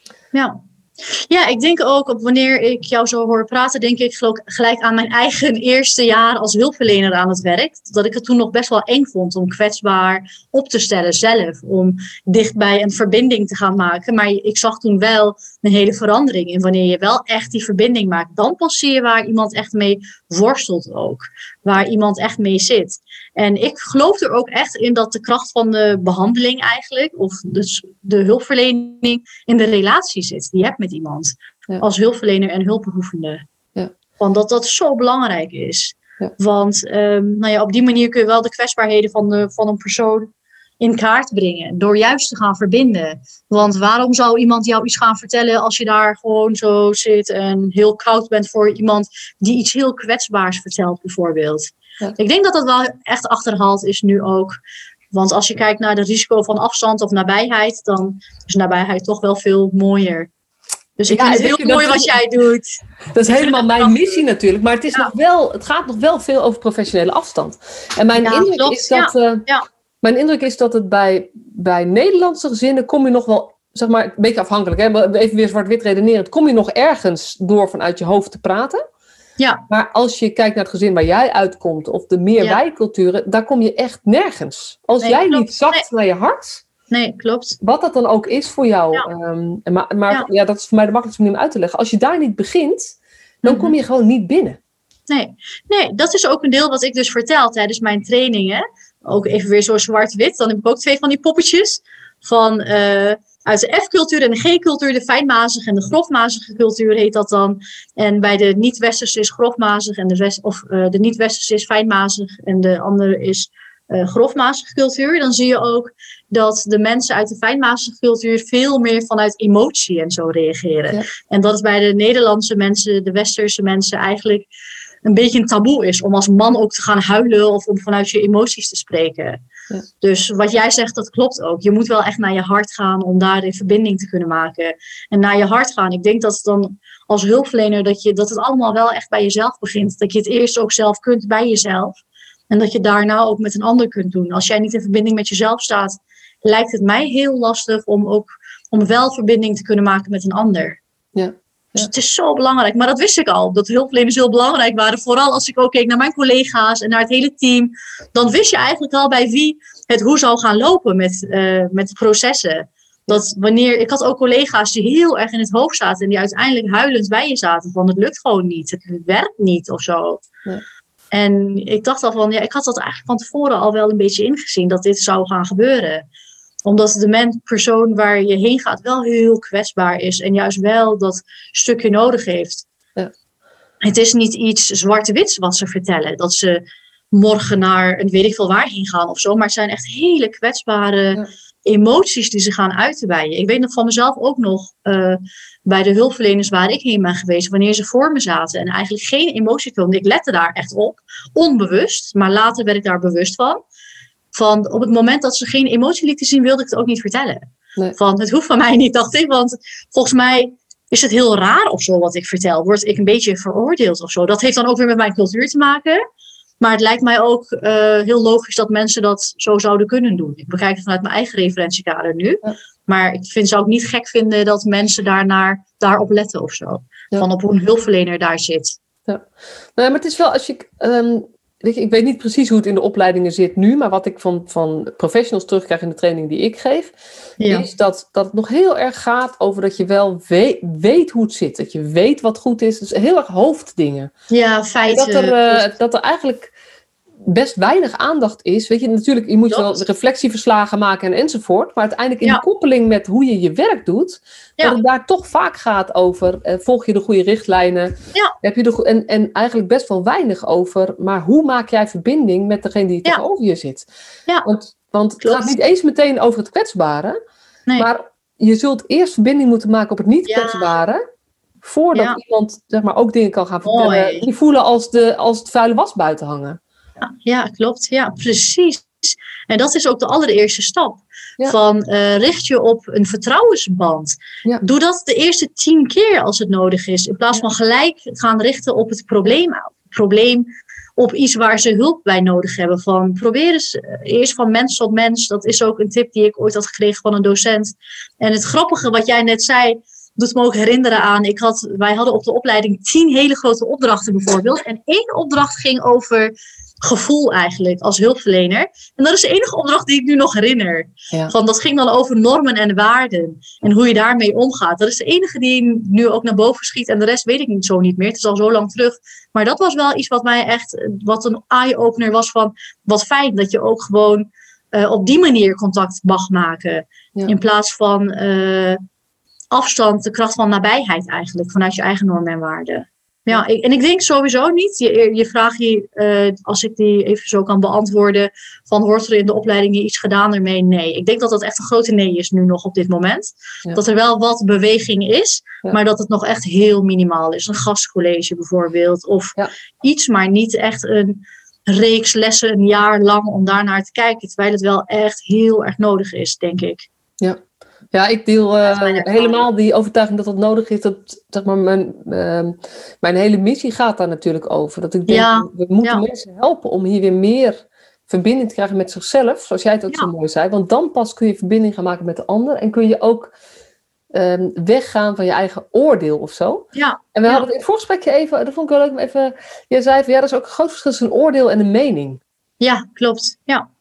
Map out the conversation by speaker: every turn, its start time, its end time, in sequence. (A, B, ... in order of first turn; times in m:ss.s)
0:00.3-0:33.4 A
0:34.2-0:54.6 A
0:55.1-1:00.3 A
1:01.0-1:02.7 A
1:01.1-1:02.2 B
1:03.1-1:09.5 B
1:03.3-1:04.1 A
1:08.2-1:09.6 A
1:10.0-1:18.8 B
1:19.7-1:26.6 B
1:25.0-1:25.9 A
1:26.9-1:27.6 A
1:27.6-1:34.6 B
1:33.4-1:33.7 A
1:35.1-2:04.5 A
2:05.0-2:09.4 A
2:10.0-2:22.0 A
2:22.5-2:30.8 A
2:31.2-2:31.9 B
2:31.8-2:50.2 A
2:51.1-2:56.1 A
2:56.6-3:02.7 A
3:03.8-3:23.6 A
3:24.3-3:27.4 A
3:28.0-3:36.0 A
3:36.6-3:48.8 A
3:49.1-3:56.9 B
3:57.4-3:57.7 A
3:57.5-4:04.1 B
4:04.3-4:05.7 A
4:04.9-4:06.5 B
4:07.3-4:23.9 B
4:24.4-4:27.2 B
4:25.2-4:25.5 A
4:27.8-4:31.0 B
4:30.3-4:30.7 A
4:31.6-4:36.6 B
4:31.9-4:32.2 A
4:33.6-4:34.3 A
4:37.0-4:50.5 A
4:51.0-5:28.8 A
5:29.5-5:56.9 A
5:57.9-6:13.3 B
5:58.6-5:59.5 A
6:05.1-6:06.0 A
6:14.1-6:22.2 B
6:16.8-6:17.5 A
6:22.6-6:23.7 A